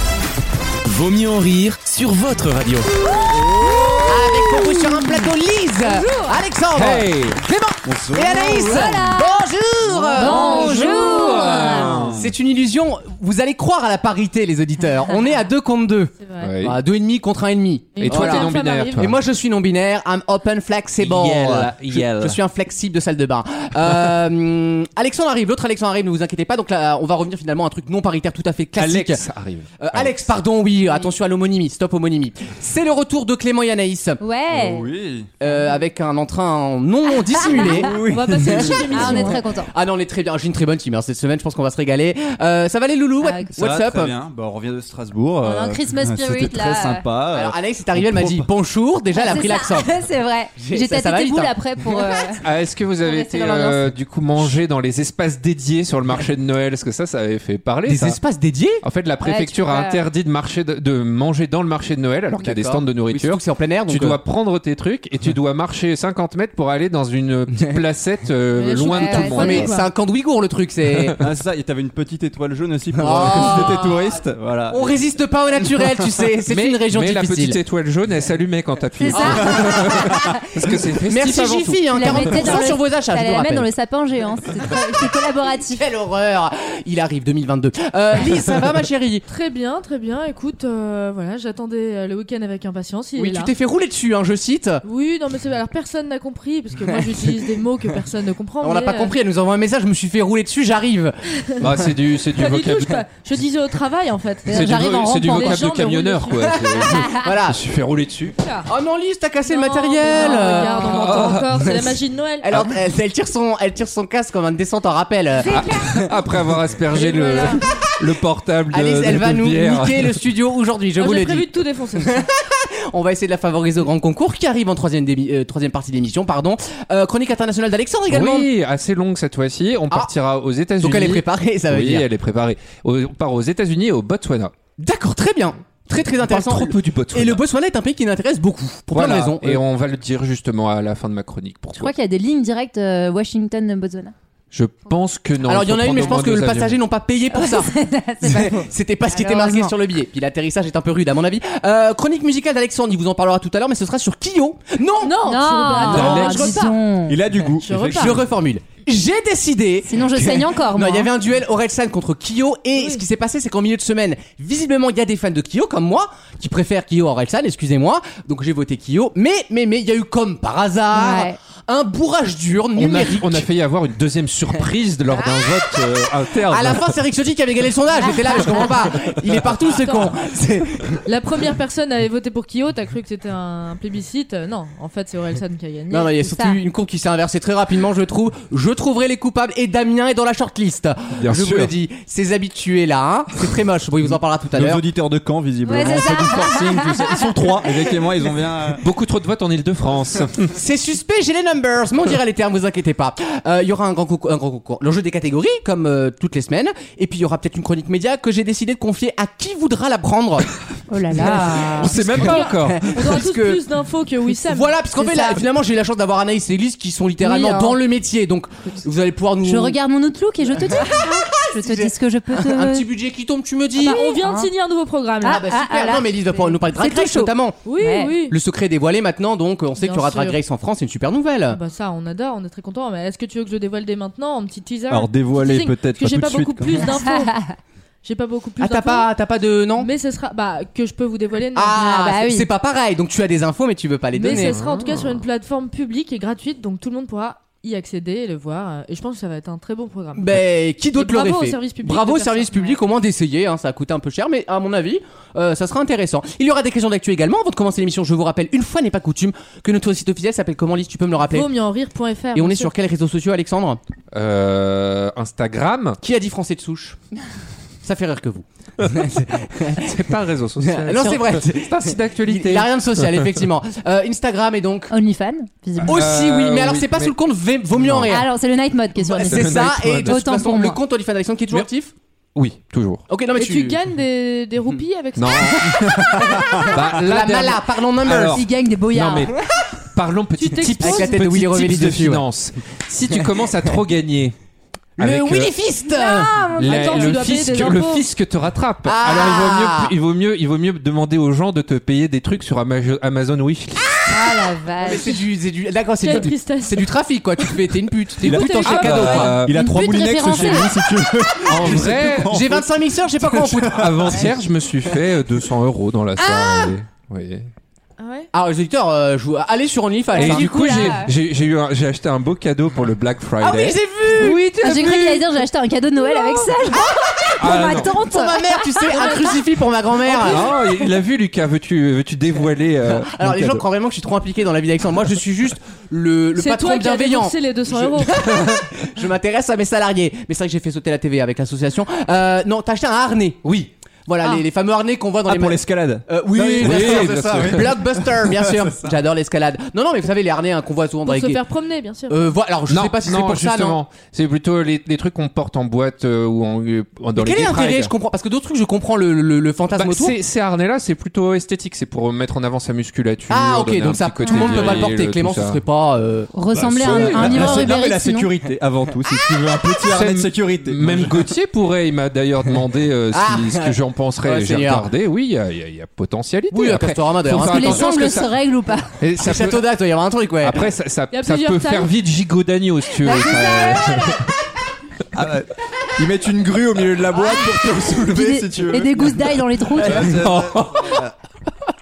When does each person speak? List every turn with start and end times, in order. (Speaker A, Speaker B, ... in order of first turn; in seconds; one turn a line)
Speaker A: 0.8-2.9
Speaker B: 3.5-3.9
Speaker C: 4.0-29.2
Speaker D: 4.5-5.2
Speaker E: 6.7-7.4
Speaker B: 7.8-8.9
Speaker D: 8.6-9.4
Speaker E: 10.2-12.2
Speaker D: 10.2-12.0
Speaker B: 11.7-12.2
Speaker F: 16.2-16.5
Speaker E: 16.4-16.8
Speaker F: 17.9-19.1
Speaker E: 18.0-19.2
Speaker E: 21.0-22.4
Speaker E: 28.8-30.3
Speaker C: 29.8-34.2
Speaker D: 34.2-34.9
Speaker B: 34.5-35.3
Speaker C: 35.4-44.1
Speaker D: 35.4-35.8
Speaker D: 37.4-37.8
Speaker B: 37.6-39.4
Speaker F: 37.9-39.4
Speaker D: 38.9-39.7
Speaker D: 43.2-43.5
Speaker B: 43.6-48.5
Speaker D: 45.4-47.0
Speaker C: 47.3-49.9
Speaker D: 49.1-53.9
Speaker C: 50.5-51.5
Speaker E: 52.4-58.2
Speaker C: 57.9-58.8
Speaker E: 58.8-69.7
Speaker D: 59.2-60.0
Speaker C: 62.4-64.2
Speaker F: 68.6-69.9
Speaker D: 68.7-69.5
Speaker C: 69.3-71.1
Speaker E: 70.9-71.2
Speaker B: 71.2-76.0
Speaker C: 72.9-74.1
Speaker C: 74.7-77.6
Speaker E: 76.5-82.7
Speaker D: 79.0-80.2
Speaker C: 79.1-80.1
Speaker C: 81.0-83.7
Speaker D: 81.9-85.8
Speaker C: 85.7-89.2
Speaker F: 89.3-93.5
Speaker C: 93.2-94.8
Speaker F: 94.8-99.1
Speaker C: 98.6-101.6
Speaker E: 101.6-103.0
Speaker F: 102.3-104.5
Speaker D: 104.5-105.8
Speaker E: 104.5-108.4
Speaker F: 105.3-106.6
Speaker C: 106.3-107.6
Speaker F: 108.4-108.7
Speaker C: 108.7-111.9
Speaker F: 109.5-112.5
Speaker D: 110.1-110.8
Speaker E: 110.8-111.5
Speaker C: 112.4-116.1
Speaker E: 115.4-120.2
Speaker C: 117.0-117.4
Speaker F: 117.0-117.5
Speaker C: 118.7-128.5
Speaker F: 121.0-122.2
Speaker E: 128.1-134.5
Speaker C: 130.8-132.1
Speaker C: 134.8-139.6
Speaker E: 136.1-137.4
Speaker E: 138.9-141.9
Speaker D: 141.8-144.1
Speaker E: 144.5-146.8
Speaker C: 145.4-156.6
Speaker D: 147.3-149.7
Speaker F: 155.0-156.8
Speaker D: 155.2-157.2
Speaker B: 157.1-158.2
Speaker F: 157.6-158.2
Speaker C: 157.9-173.5
Speaker D: 159.8-161.1
Speaker D: 170.9-171.4
Speaker E: 172.8-176.9
Speaker C: 175.2-175.8
Speaker C: 176.5-181.0
Speaker D: 178.0-178.7
Speaker F: 179.7-180.2
Speaker F: 181.0-186.1
Speaker C: 185.9-194.8
Speaker D: 186.2-186.6
Speaker E: 191.2-191.7
Speaker B: 194.5-198.8
Speaker D: 195.6-197.9
Speaker E: 198.8-200.5
Speaker C: 200.5-210.5
Speaker D: 210.9-212.0
Speaker C: 211.2-213.6
Speaker E: 211.2-213.2
Speaker F: 212.2-214.8
Speaker C: 214.4-219.8
Speaker D: 215.0-215.4
Speaker D: 217.2-217.8
Speaker D: 219.4-222.8
Speaker C: 220.5-224.1
Speaker F: 223.8-225.4
Speaker D: 223.8-224.5
Speaker D: 225.2-228.2
Speaker C: 225.2-227.6
Speaker F: 227.6-228.3
Speaker C: 228.3-231.6
Speaker F: 229.8-230.4
Speaker F: 231.5-237.3
Speaker B: 234.9-236.9
Speaker D: 237.0-237.5
Speaker F: 238.0-239.1
Speaker C: 238.6-239.9
Speaker F: 239.8-241.8
Speaker C: 241.5-244.6
Speaker D: 241.7-242.5
Speaker F: 244.2-250.3
Speaker E: 244.3-245.2
Speaker C: 250.2-261.5
Speaker F: 250.9-252.8
Speaker F: 261.3-262.7
Speaker C: 262.3-263.8
Speaker E: 264.1-266.0
Speaker C: 266.0-267.0
Speaker C: 267.8-269.9
Speaker E: 269.7-273.4
Speaker C: 270.6-274.9
Speaker D: 274.9-276.0
Speaker E: 275.8-277.1
Speaker C: 275.8-278.3
Speaker E: 277.7-278.2
Speaker D: 278.1-280.8
Speaker C: 279.0-281.9
Speaker E: 279.1-280.2
Speaker E: 282.3-283.0
Speaker C: 283.1-283.8
Speaker F: 283.4-285.9
Speaker E: 285.1-294.3
Speaker C: 286.4-288.4
Speaker D: 288.4-289.3
Speaker F: 290.4-291.1
Speaker C: 290.7-292.2
Speaker E: 295.0-295.6
Speaker C: 295.0-296.3
Speaker D: 295.9-297.2
Speaker F: 296.6-298.1
Speaker E: 296.6-304.4
Speaker C: 298.8-299.9
Speaker D: 304.1-305.2
Speaker C: 304.8-309.3
Speaker F: 306.0-306.9
Speaker B: 308.2-312.7
Speaker F: 308.2-309.4
Speaker E: 308.6-309.8
Speaker D: 309.5-310.9
Speaker E: 311.4-312.4
Speaker C: 311.4-314.1
Speaker B: 313.2-314.2
Speaker E: 313.6-317.5
Speaker C: 316.2-316.7
Speaker F: 318.0-318.3
Speaker C: 318.3-321.0
Speaker E: 320.1-323.8
Speaker D: 320.1-321.1
Speaker C: 323.4-325.3
Speaker D: 324.2-329.2
Speaker C: 326.0-330.5
Speaker E: 327.4-327.9
Speaker F: 328.9-329.4
Speaker E: 330.2-333.6
Speaker F: 330.2-330.5
Speaker C: 332.9-351.4
Speaker F: 336.4-338.1
Speaker B: 345.3-349.0
Speaker E: 346.6-347.8
Speaker F: 351.1-352.3
Speaker C: 352.1-353.8
Speaker E: 352.7-357.9
Speaker C: 357.2-360.1
Speaker E: 359.8-365.6
Speaker C: 363.3-366.3
Speaker D: 364.2-364.9
Speaker D: 366.3-368.3
Speaker E: 366.5-367.7
Speaker B: 366.7-371.3
Speaker C: 366.8-367.4
Speaker E: 369.9-378.4
Speaker C: 373.1-374.9
Speaker C: 376.5-378.2
Speaker D: 377.3-378.9
Speaker E: 379.0-379.7
Speaker C: 379.2-380.6
Speaker E: 380.4-384.2
Speaker F: 381.1-381.9
Speaker D: 383.0-384.2
Speaker B: 383.3-383.9
Speaker B: 385.1-391.1
Speaker D: 387.9-390.2
Speaker C: 389.8-390.1
Speaker E: 390.1-391.0